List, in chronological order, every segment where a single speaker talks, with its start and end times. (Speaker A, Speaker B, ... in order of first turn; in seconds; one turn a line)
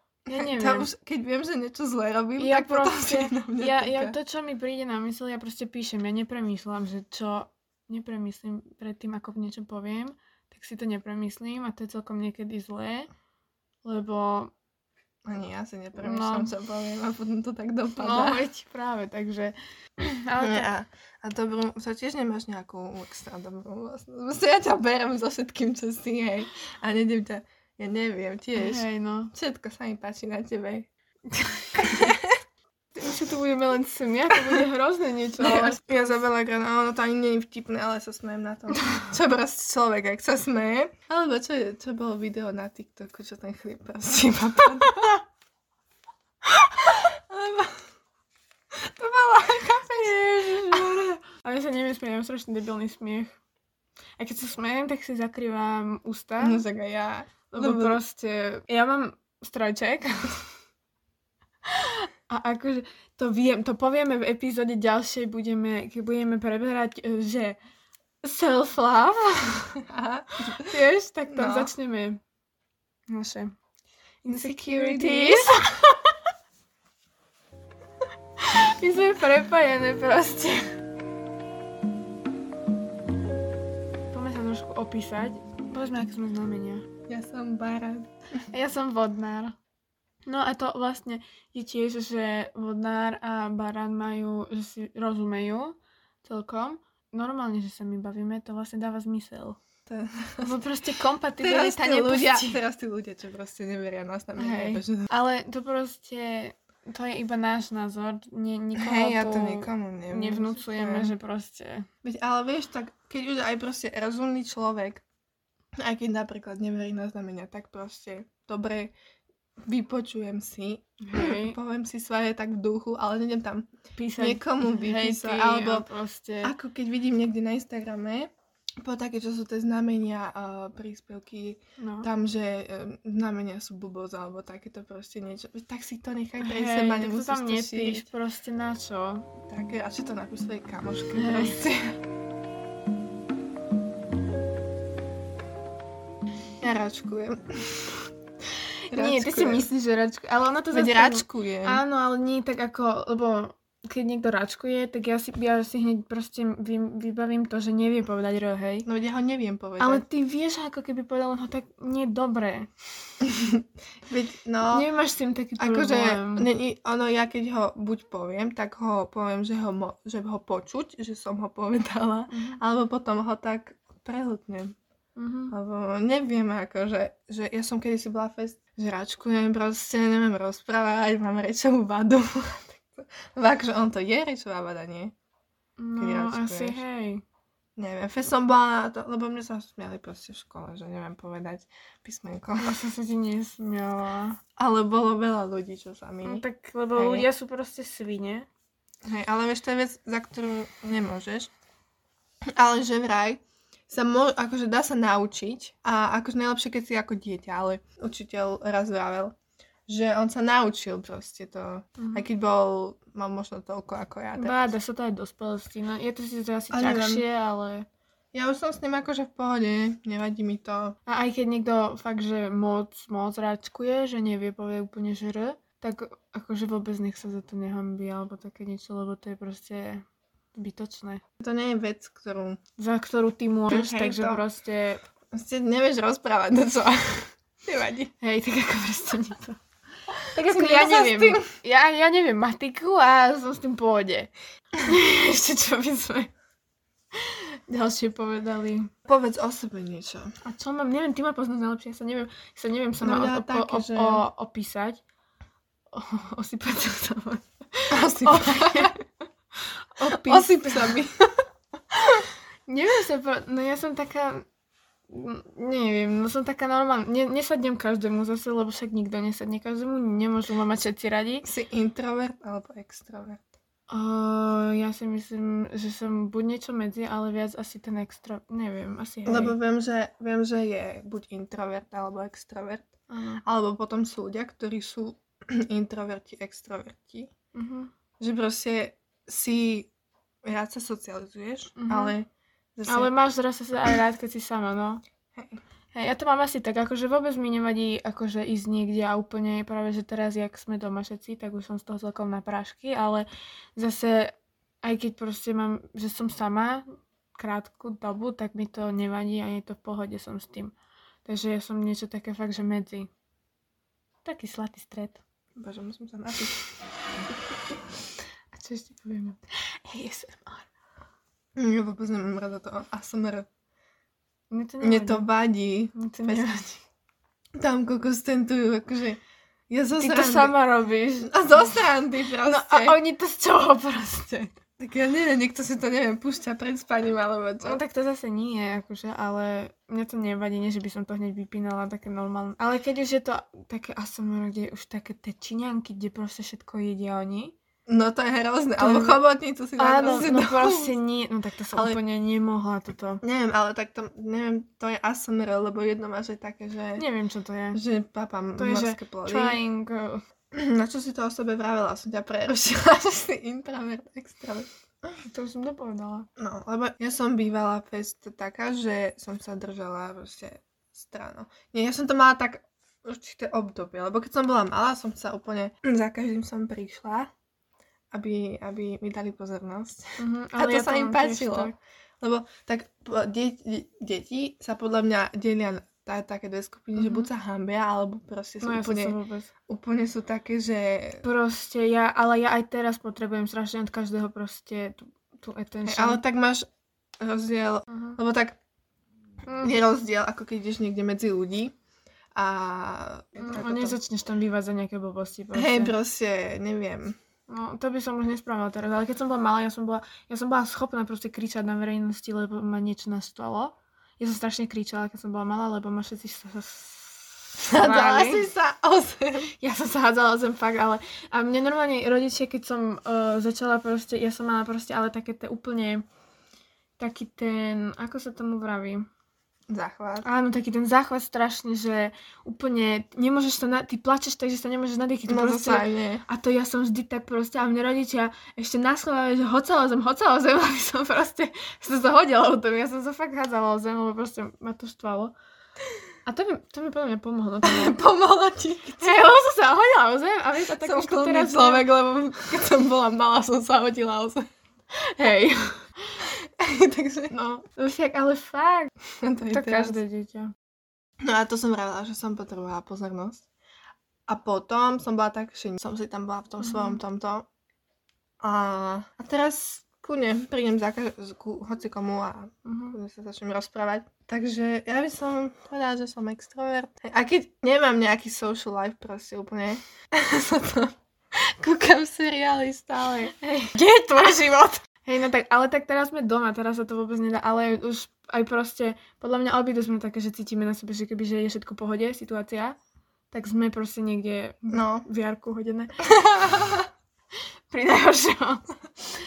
Speaker A: 0.3-4.2
Speaker B: 0.3-0.9
Speaker B: 2.4-13.1
Speaker B: 13.8-14.5
Speaker A: 15.3-18.5
Speaker B: 16.0-16.5
Speaker B: 17.9-20.7
Speaker A: 20.4-30.9
Speaker B: 28.6-29.3
Speaker B: 31.3-32.1
Speaker A: 31.8-32.3
Speaker B: 33.0-36.2
Speaker A: 34.4-34.6
Speaker A: 35.4-45.2
Speaker A: 47.0-47.8
Speaker A: 48.8-51.2
Speaker B: 49.7-53.4
Speaker B: 54.2-56.7
Speaker A: 56.4-58.0
Speaker B: 57.5-60.4
Speaker B: 61.7-67.6
Speaker B: 68.2-69.7
Speaker A: 69.8-70.8
Speaker B: 70.4-72.2
Speaker A: 71.3-71.7
Speaker B: 73.1-73.5
Speaker B: 74.2-76.2
Speaker A: 74.3-75.5
Speaker B: 78.4-80.7
Speaker B: 84.1-86.9
Speaker A: 87.1-88.1
Speaker B: 88.5-89.5
Speaker B: 90.3-99.6
Speaker A: 99.9-100.6
Speaker B: 100.4-102.6
Speaker A: 101.4-105.1
Speaker B: 104.4-111.9
Speaker A: 108.8-111.1
Speaker A: 112.0-115.0
Speaker A: 115.8-118.9
Speaker A: 119.7-125.9
Speaker B: 121.0-121.6
Speaker B: 124.0-126.5
Speaker A: 126.4-128.3
Speaker A: 128.8-138.1
Speaker B: 131.8-132.1
Speaker B: 136.4-139.3
Speaker A: 139.5-142.0
Speaker B: 141.1-141.7
Speaker A: 146.6-148.0
Speaker A: 148.9-149.7
Speaker B: 148.9-158.9
Speaker A: 150.7-151.8
Speaker A: 158.8-160.1
Speaker B: 159.8-162.7
Speaker A: 164.1-164.9
Speaker B: 164.7-166.5
Speaker A: 165.6-174.8
Speaker B: 172.3-172.6
Speaker B: 175.2-175.5
Speaker A: 175.5-185.1
Speaker B: 185.8-187.2
Speaker A: 186.0-186.8
Speaker A: 187.8-192.8
Speaker B: 192.6-194.4
Speaker A: 194.6-197.3
Speaker B: 196.2-198.5
Speaker A: 199.1-201.5
Speaker A: 202.6-209.3
Speaker A: 209.9-214.7
Speaker B: 212.0-212.3
Speaker B: 214.3-217.9
Speaker A: 216.7-217.3
Speaker A: 218.3-221.0
Speaker B: 221.1-231.2
Speaker A: 231.4-232.6
Speaker B: 232.8-235.0
Speaker A: 233.7-234.4
Speaker A: 235.3-238.1
Speaker B: 238.2-239.6
Speaker B: 240.3-246.3
Speaker A: 240.3-241.5
Speaker B: 247.2-248.9
Speaker A: 249.1-250.3
Speaker B: 250.4-255.0
Speaker A: 253.0-254.3
Speaker B: 255.9-258.9
Speaker A: 257.9-259.0
Speaker B: 259.9-261.0
Speaker A: 260.0-261.1
Speaker B: 262.7-264.5
Speaker B: 265.1-271.5
Speaker A: 271.4-273.4
Speaker B: 273.9-279.6
Speaker A: 279.3-282.9
Speaker B: 283.1-283.4
Speaker A: 283.4-287.3
Speaker B: 287.6-287.9
Speaker A: 288.2-289.9
Speaker A: 290.4-293.1
Speaker B: 291.8-292.1
Speaker B: 292.9-295.0
Speaker B: 295.9-310.7
Speaker B: 311.3-313.1
Speaker B: 314.2-315.2
Speaker A: 315.6-316.6
Speaker B: 318.5-320.7
Speaker A: 321.6-323.5
Speaker B: 324.5-325.3
Speaker A: 324.8-326.7
Speaker B: 325.9-326.8
Speaker A: 327.6-330.6
Speaker B: 330.0-331.7
Speaker A: 331.2-333.0
Speaker B: 332.5-334.6
Speaker A: 334.8-337.8
Speaker B: 337.6-347.6
Speaker A: 347.9-350.9
Speaker B: 348.8-349.2
Speaker B: 349.8-353.2
Speaker A: 351.7-352.0
Speaker A: 353.2-357.1
Speaker B: 357.0-357.8
Speaker A: 357.7-359.6
Speaker B: 358.6-360.2
Speaker A: 360.5-364.7
Speaker B: 365.2-366.3
Speaker A: 366.4-377.3
Speaker A: 378.1-391.3
Speaker B: 380.2-381.8
Speaker B: 387.0-387.3
Speaker B: 388.6-389.5
Speaker B: 391.2-396.2
Speaker A: 395.9-396.7
Speaker A: 397.2-398.6
Speaker B: 397.9-398.2
Speaker B: 399.5-399.8
Speaker A: 399.6-401.7
Speaker A: 402.4-404.0
Speaker B: 403.4-405.9
Speaker A: 405.5-407.2
Speaker B: 407.5-418.5
Speaker A: 417.6-419.5
Speaker B: 419.6-426.0
Speaker B: 427.0-429.1
Speaker A: 429.7-430.3
Speaker B: 430.2-445.3
Speaker A: 435.3-436.2
Speaker B: 446.3-448.0
Speaker A: 447.6-449.2
Speaker B: 449.0-451.9
Speaker A: 450.8-454.5
Speaker B: 455.1-455.9
Speaker A: 456.6-457.3
Speaker B: 457.3-458.9
Speaker A: 459.2-460.0
Speaker B: 459.5-460.5
Speaker A: 461.2-463.4
Speaker A: 464.3-467.5
Speaker B: 466.7-467.0
Speaker A: 468.4-483.7
Speaker B: 472.6-473.0
Speaker B: 483.7-492.8
Speaker B: 493.3-496.1
Speaker A: 494.7-495.1
Speaker A: 496.1-496.9
Speaker B: 497.7-498.6